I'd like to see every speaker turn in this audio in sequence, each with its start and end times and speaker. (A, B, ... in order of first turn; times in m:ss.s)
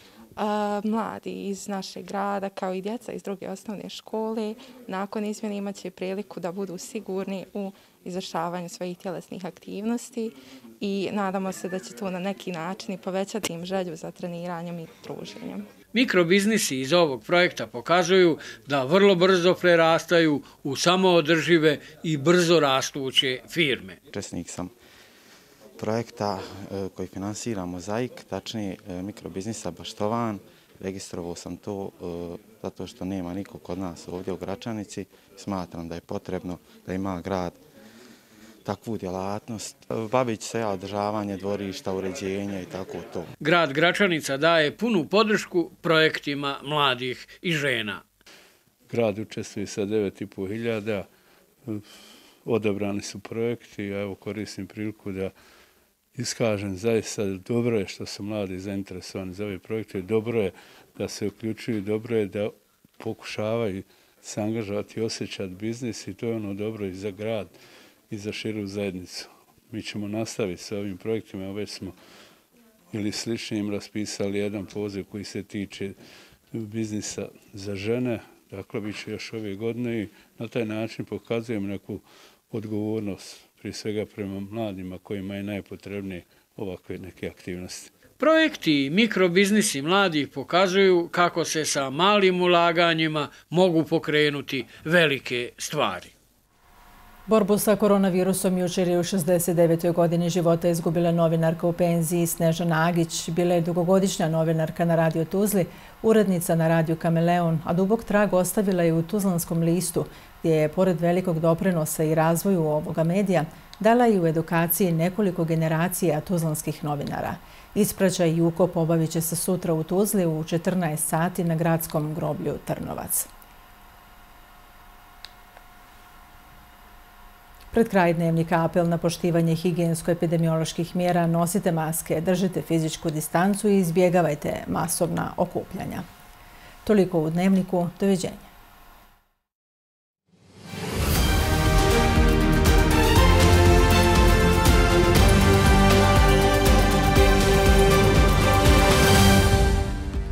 0:00.4-0:15.6 A
0:15.9-0:24.0 B
0:24.1-0:24.7 C
0:25.8-0:37.6 C
0:38.6-0:43.3 C
0:43.4-0:48.0 B
0:48.9-0:51.1 D
0:51.6-0:51.9 D
0:52.4-0:55.3 D
0:56.2-1:07.5 D
1:08.1-1:12.0 D
1:12.9-1:16.0 D
1:16.5-1:27.9 D
1:28.2-1:36.1 B
1:37.3-2:03.3 E
2:07.7-2:16.1 E
2:16.8-2:18.5 E